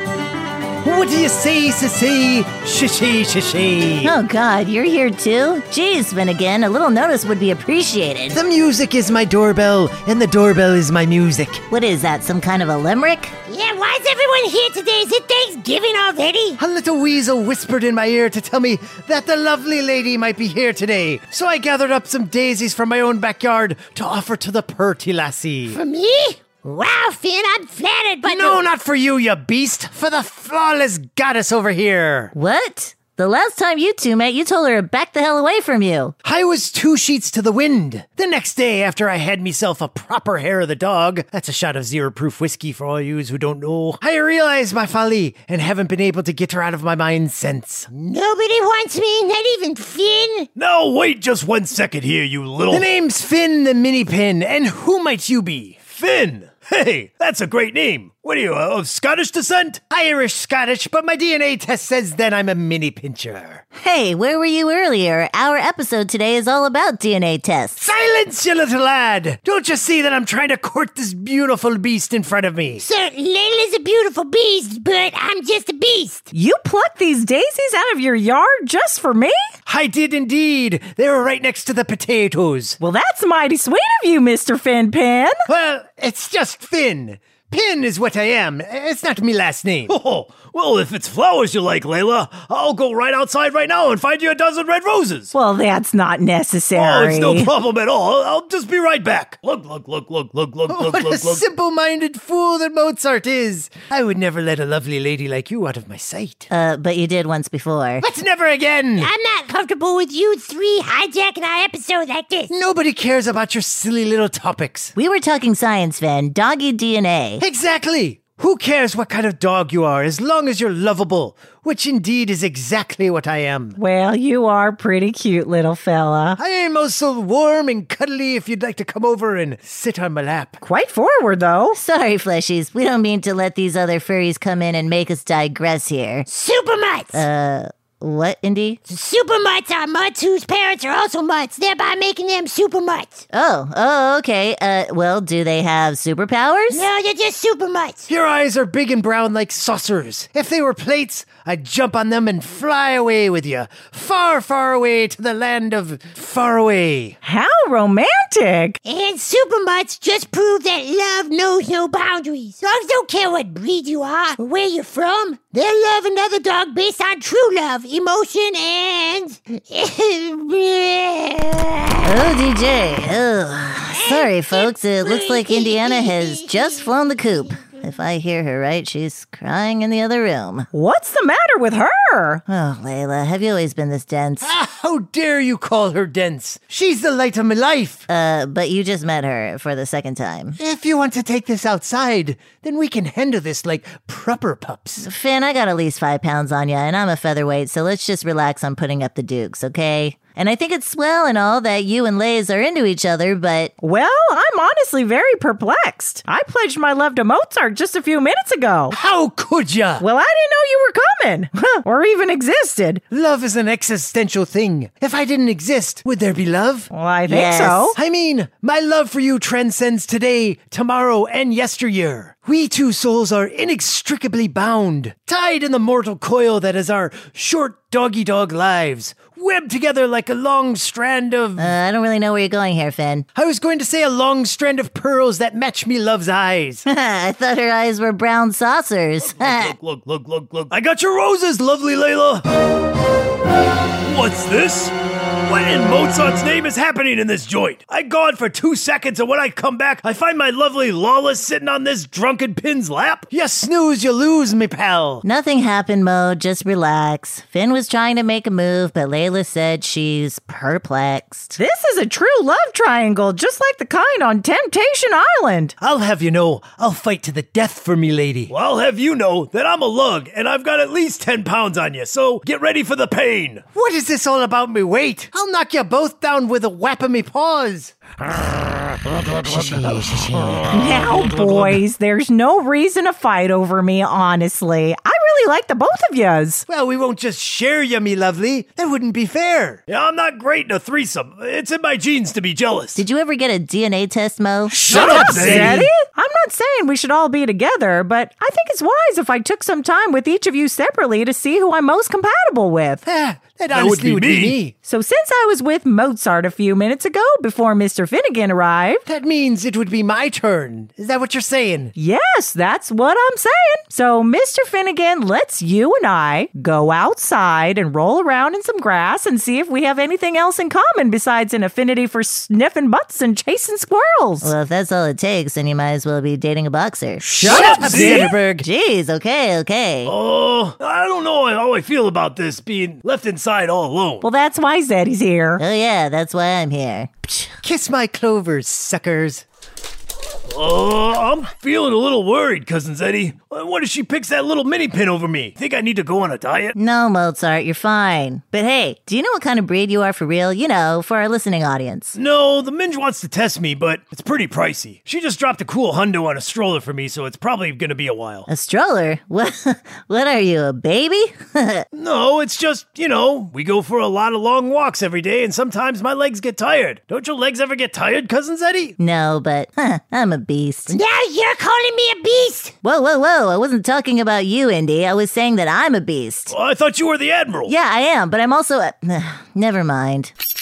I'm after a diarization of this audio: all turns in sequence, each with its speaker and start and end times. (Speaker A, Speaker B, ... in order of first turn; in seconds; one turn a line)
Speaker A: 0.8-4.1
Speaker B: 4.0-8.4
Speaker A: 8.3-11.7
Speaker B: 11.7-13.3
Speaker C: 13.5-16.6
Speaker A: 16.6-25.8
Speaker C: 25.7-28.6
Speaker A: 28.3-32.3
Speaker B: 32.3-36.1
Speaker A: 36.2-47.9
Speaker C: 47.9-50.5
Speaker D: 50.6-52.9
Speaker A: 52.7-55.9
Speaker D: 55.8-59.9
Speaker A: 59.9-63.6
Speaker B: 63.8-67.9
Speaker A: 67.8-72.8
Speaker C: 72.8-76.3
Speaker E: 76.3-79.4
Speaker A: 79.7-82.8
Speaker E: 82.8-85.4
Speaker A: 85.5-89.9
Speaker D: 89.9-95.3
Speaker E: 95.3-97.5
Speaker D: 96.7-101.4
Speaker A: 100.7-106.5
Speaker B: 106.5-108.0
Speaker A: 108.0-109.1
Speaker C: 109.0-112.5
Speaker A: 112.5-114.9
Speaker B: 115.0-117.4
Speaker A: 117.4-123.8
Speaker E: 123.8-126.4
Speaker A: 126.4-130.6
Speaker E: 130.6-131.8
Speaker B: 131.7-136.3
Speaker C: 136.3-137.2
Speaker B: 137.1-138.8
Speaker C: 138.9-143.2
Speaker B: 143.3-146.9
Speaker C: 146.7-148.1
Speaker A: 148.1-157.2
Speaker E: 157.2-158.8
Speaker C: 158.8-172.2
Speaker B: 172.0-180.7
Speaker C: 173.9-176.9
Speaker E: 180.7-182.4
Speaker B: 182.5-184.5
Speaker A: 184.4-188.1
Speaker B: 188.1-190.6
Speaker A: 190.6-195.1
Speaker B: 195.0-203.7
Speaker E: 203.8-209.0
Speaker A: 208.9-210.1
Speaker E: 210.0-213.0
Speaker A: 213.1-216.9
Speaker E: 216.9-218.0
Speaker B: 217.3-217.9
Speaker A: 217.9-231.7
Speaker B: 231.6-233.3
Speaker A: 233.3-236.8
Speaker B: 236.8-239.8
Speaker D: 239.2-242.4
Speaker D: 244.0-253.3
Speaker A: 253.3-255.2
Speaker B: 255.2-261.6
Speaker E: 261.6-265.8
Speaker A: 265.8-268.5
Speaker D: 268.5-273.6
Speaker A: 273.7-278.0
Speaker A: 279.4-280.6
Speaker E: 280.7-286.6
Speaker A: 286.7-289.9
Speaker D: 289.9-293.0
Speaker B: 293.0-294.8
Speaker E: 294.7-303.0
Speaker D: 294.8-295.9
Speaker A: 294.8-295.9
Speaker A: 303.1-304.7
Speaker D: 303.7-304.6
Speaker E: 304.8-309.0
Speaker A: 309.1-311.9
Speaker E: 312.0-324.5
Speaker B: 324.4-330.1
Speaker A: 327.3-328.7
Speaker D: 327.4-328.3
Speaker E: 327.4-328.3
Speaker D: 330.1-334.3
Speaker E: 334.2-335.6
Speaker B: 335.6-337.5
Speaker A: 337.6-339.4
Speaker D: 340.5-346.8
Speaker B: 346.8-352.2
Speaker D: 352.1-358.5
Speaker B: 358.5-361.9
Speaker D: 361.9-369.0
Speaker B: 369.0-371.0
Speaker C: 370.9-372.8
Speaker B: 372.8-376.5
Speaker D: 376.5-377.7
Speaker B: 377.7-380.3